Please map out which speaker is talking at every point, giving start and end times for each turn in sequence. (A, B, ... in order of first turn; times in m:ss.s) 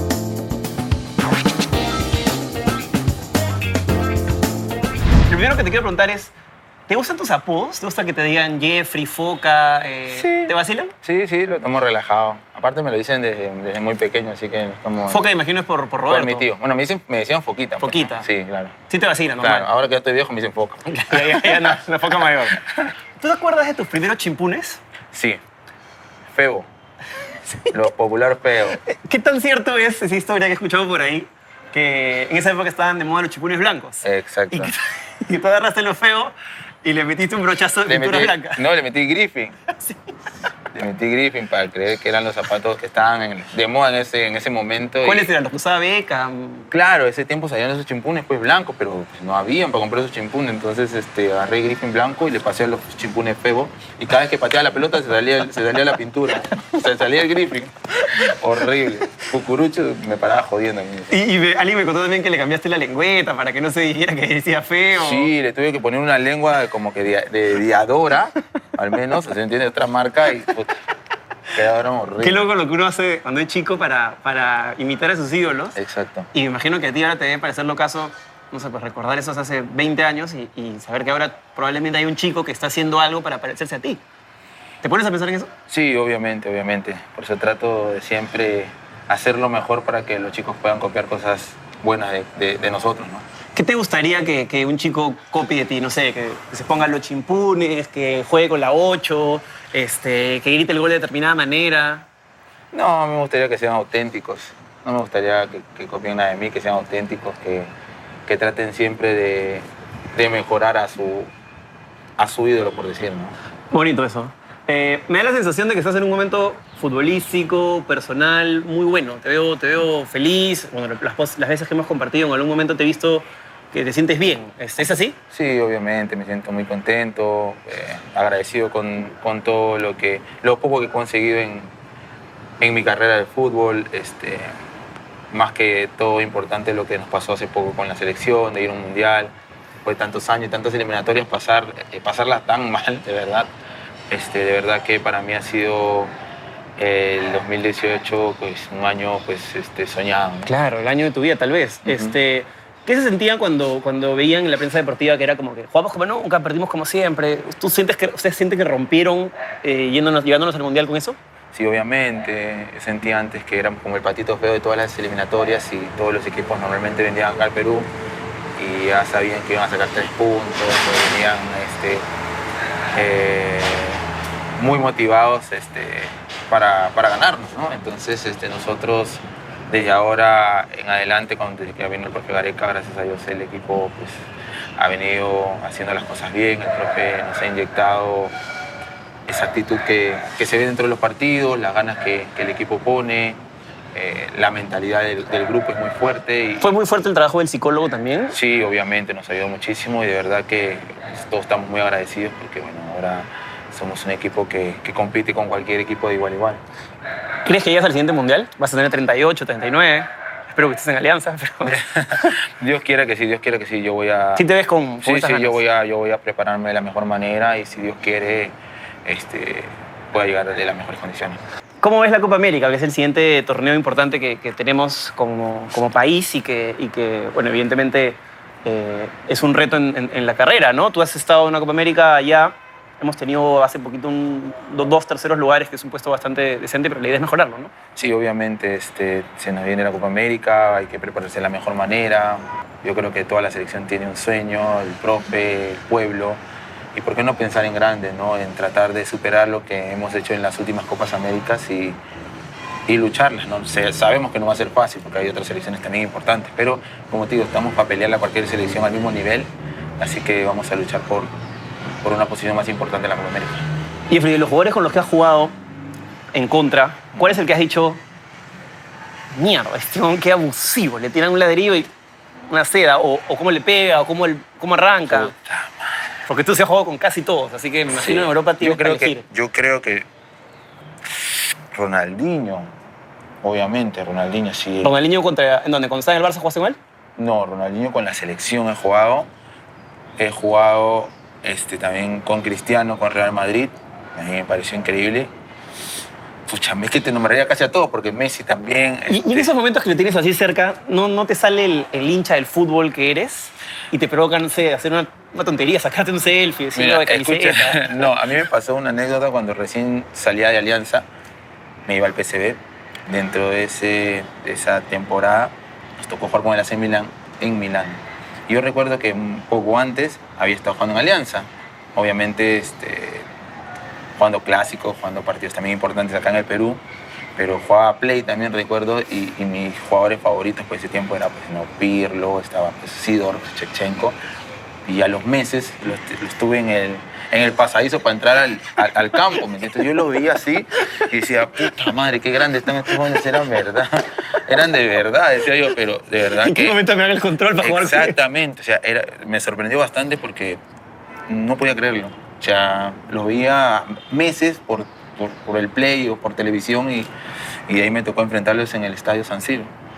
0:05.3-0:06.3 A
0:06.9-0:10.9 A
0:10.1-0:15.2 B
0:15.1-0:16.5 A
0:16.1-0:18.8 B
0:17.8-0:18.3 A
0:18.9-0:19.7 A
0:19.4-0:21.8 B
0:20.9-0:24.8 A
0:25.1-0:25.4 B
0:26.3-0:26.7 B
0:27.5-0:27.8 A
0:27.7-0:28.8 B
0:28.8-0:38.6 A
0:34.0-0:34.7 B
0:37.9-0:39.6 B
0:40.7-0:45.3 B
0:45.0-0:46.7 A
0:46.7-1:01.2 B
1:01.1-1:05.3 A
1:05.0-1:10.8 B
1:11.5-1:12.5 B
1:12.2-1:15.8 A
1:15.8-1:16.3 B
1:16.3-1:24.0 A
1:24.8-1:25.5 A
1:25.7-1:33.3 B
1:33.6-1:42.1 A
1:42.7-1:47.7 B
1:48.3-1:51.3 B
1:52.2-1:53.4 B
1:53.7-2:05.2 A
2:05.3-2:11.7 B
2:12.6-2:14.5 B
2:15.3-2:23.5 B
2:24.1-2:26.1 B
2:26.8-2:30.5 B
2:30.4-2:41.2 A
2:31.8-2:32.2 B
2:41.5-2:47.9 B
2:48.6-2:52.1 B
2:52.9-2:54.0 B
2:54.6-3:08.4 B
3:09.3-3:13.4 B
3:13.9-3:16.7 B
3:16.6-3:18.4 A
3:18.3-3:26.6 B
3:27.4-3:32.4 A
3:31.6-3:34.5 B
3:34.4-3:35.6 A
3:35.0-3:41.4 B
3:41.8-3:57.7 A
3:58.0-4:06.4 B
4:06.9-4:12.0 B
4:12.9-4:21.3 B
4:22.0-4:23.7 B
4:24.1-4:25.6 A
4:26.3-4:28.0 A
4:29.3-4:31.9 A
4:32.5-4:35.3 A
4:35.1-4:35.9 B
4:36.3-4:39.2 A
4:37.9-4:40.1 B
4:41.1-4:42.7 B
4:43.4-4:44.9 B
4:44.8-4:46.8 A
4:47.2-4:49.3 B
4:50.2-4:55.3 B
4:56.5-4:59.5 B
4:59.1-5:08.1 A
5:06.8-5:11.1 B
5:11.9-5:23.3 B
5:24.2-5:26.8 B
5:27.4-5:34.2 B
5:34.8-5:46.8 B
5:46.3-5:48.2 A
5:47.6-5:50.6 B
5:51.3-5:57.1 B
5:57.7-5:59.7 B